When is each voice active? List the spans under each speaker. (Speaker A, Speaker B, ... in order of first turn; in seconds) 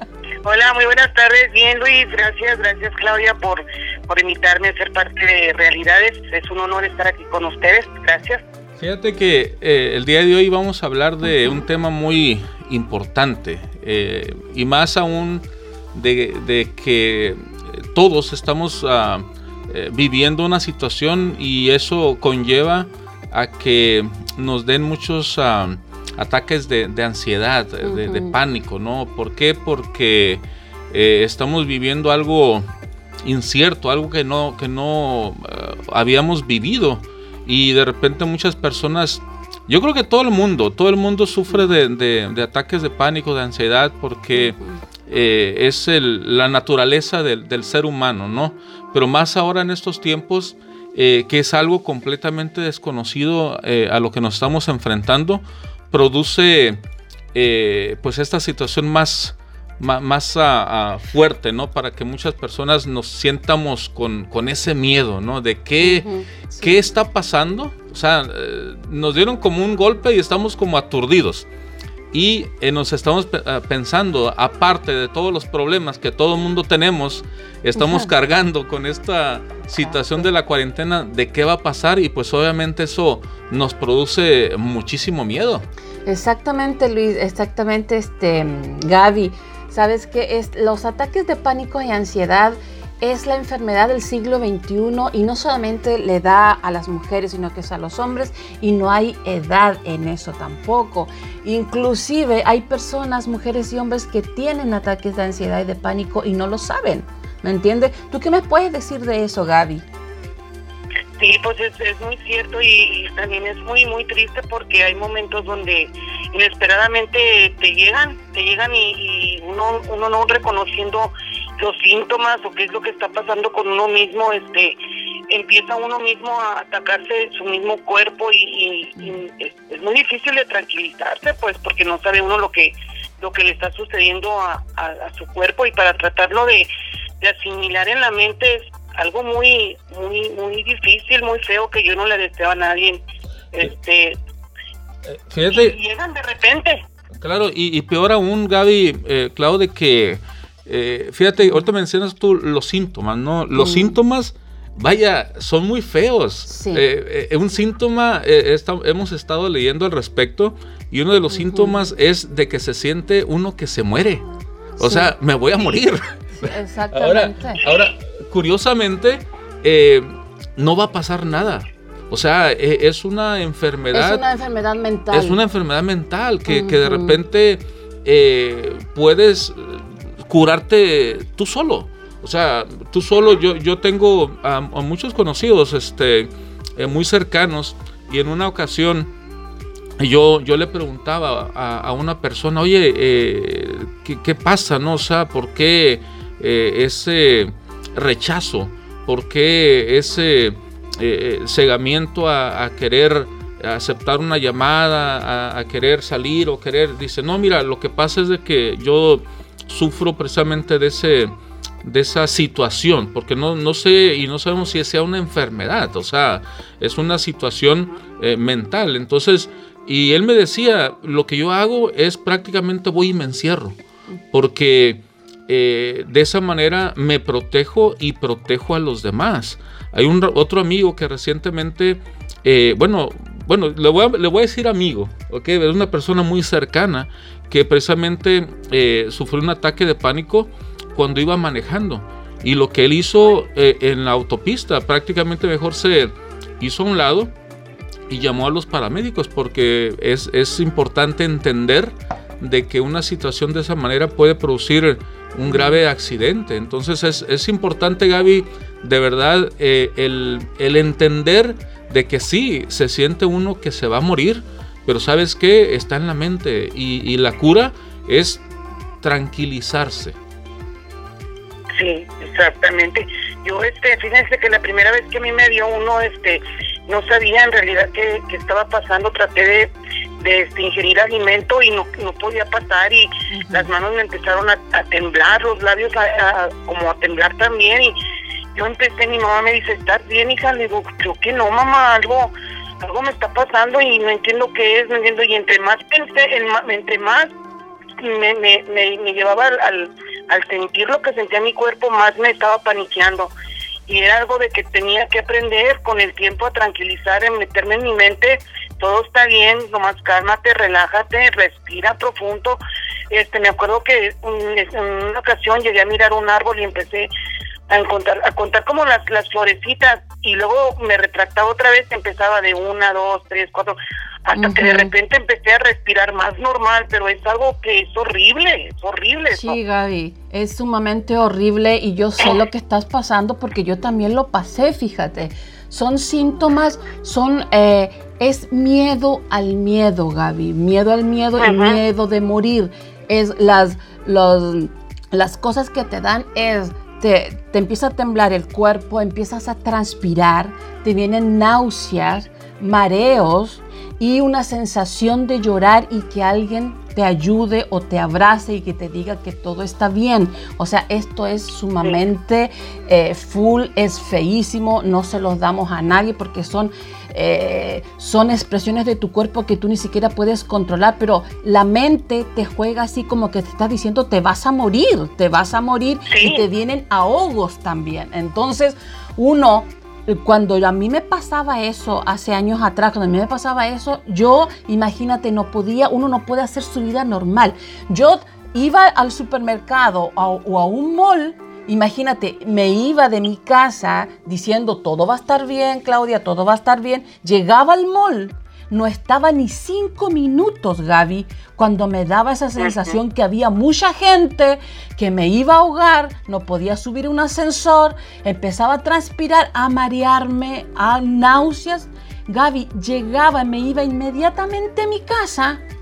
Speaker A: 0.4-8.4, 111.2-124.8, 125.3-136.7, 137.2-144.2, 145.5-146.8, 271.8-287.9, 288.5-297.3, 298.0-303.3, 303.9-317.1, 317.7-329.6, 341.4-341.8, 376.1-376.4, 402.6-402.9
Speaker B: 8.8-32.6, 33.2-56.8, 57.3-66.1, 66.6-71.5, 72.1-85.7, 145.1-145.8, 147.2-164.2, 164.8-174.2, 175.1-189.1, 190.0-223.8, 224.3-247.3, 248.1-268.4, 269.0-270.2
Speaker C: 27.8-28.3, 44.3-44.8, 65.8-66.7, 77.8-78.1, 86.0-109.9, 151.4-151.7, 153.6-153.9, 156.5-156.8, 161.3-161.8, 164.8-165.1, 166.4-167.6, 173.9-175.4, 176.5-177.2, 255.5-255.8, 283.3-283.7, 324.4-324.9, 329.3-415.6